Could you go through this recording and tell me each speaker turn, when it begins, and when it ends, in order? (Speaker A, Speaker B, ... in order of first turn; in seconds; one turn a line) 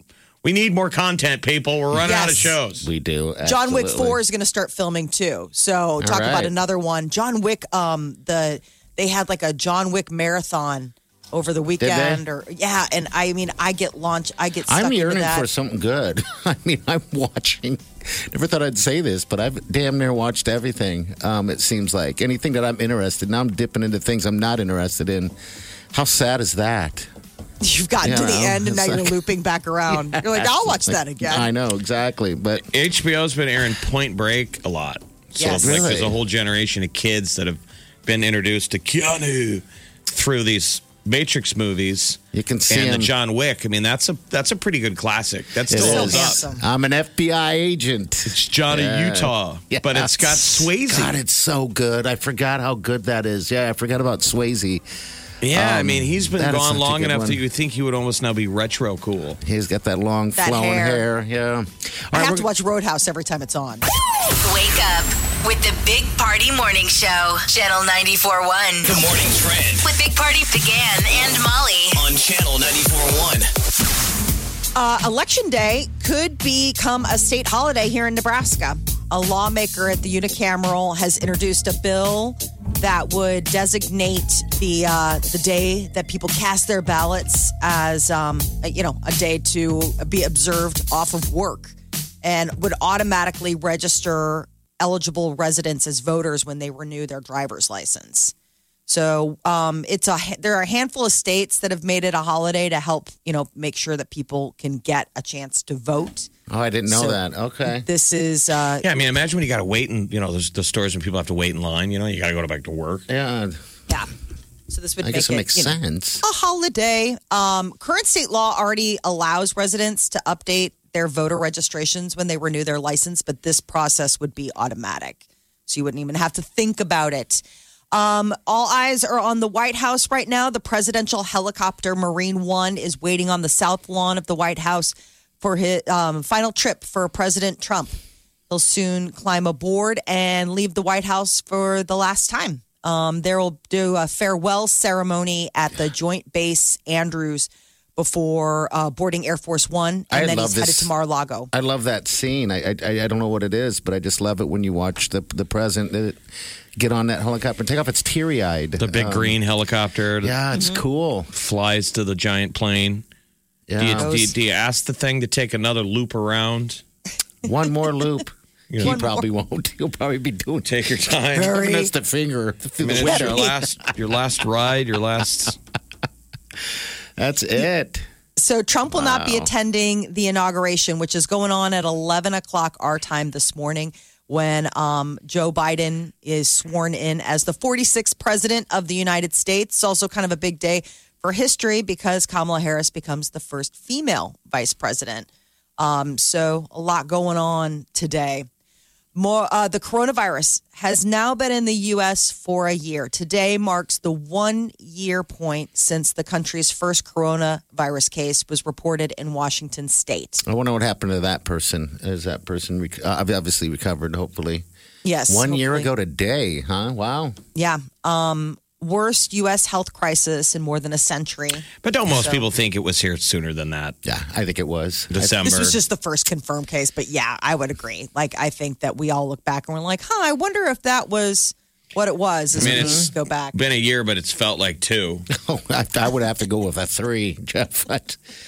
Speaker A: 0.4-2.9
Speaker B: 2.0-2.5
Speaker C: 2.8-4.2
Speaker B: 3.4-15.5
Speaker C: 6.0-6.5
Speaker C: 11.8-12.2
Speaker C: 14.7-25.3
Speaker C: 25.9-27.1
Speaker B: 27.6-31.5
Speaker C: 28.0-29.2
Speaker C: 29.9-32.6
Speaker A: 32.7-46.4
Speaker B: 35.4-35.8
Speaker C: 35.5-36.2
Speaker C: 42.3-43.1
Speaker C: 45.7-54.8
Speaker B: 45.7-46.6
Speaker A: 48.3-51.2
Speaker A: 55.4-59.4
Speaker C: 55.5-57.4
Speaker C: 59.4-62.5
Speaker B: 60.4-61.0
Speaker B: 62.1-63.8
Speaker D: 64.3-69.0
Speaker E: 68.8-69.8
Speaker D: 69.8-72.0
Speaker E: 71.9-73.5
Speaker B: 74.7-98.3
Speaker B: 98.9-106.3
Speaker C: 106.5-107.8
Speaker B: 106.9-108.8
Speaker A: 108.8-113.0
Speaker C: 113.1-113.6
Speaker B: 114.7-137.9
Speaker C: 115.0-116.2
Speaker B: 138.5-151.5
Speaker C: 150.1-150.9
Speaker C: 151.5-156.2
Speaker C: 156.8-159.4
Speaker A: 158.8-160.3
Speaker C: 160.2-161.3
Speaker B: 160.5-160.8
Speaker A: 161.3-163.0
Speaker C: 163.7-164.2
Speaker A: 163.8-166.8
Speaker B: 164.0-164.3
Speaker C: 167.4-173.7
Speaker A: 168.7-169.0
Speaker B: 168.8-169.2
Speaker A: 170.7-171.6
Speaker B: 171.4-171.9
Speaker A: 172.8-175.6
Speaker B: 173.0-173.6
Speaker C: 177.2-178.0
Speaker B: 178.4-198.5
Speaker C: 178.9-179.5
Speaker B: 199.1-210.4
Speaker C: 210.4-214.7
Speaker B: 215.0-215.9
Speaker C: 215.3-217.4
Speaker B: 217.5-222.4
Speaker A: 221.8-223.9
Speaker C: 224.0-225.3
Speaker A: 225.1-225.8
Speaker B: 225.4-233.6
Speaker C: 232.6-233.1
Speaker A: 232.6-235.3
Speaker C: 235.3-238.2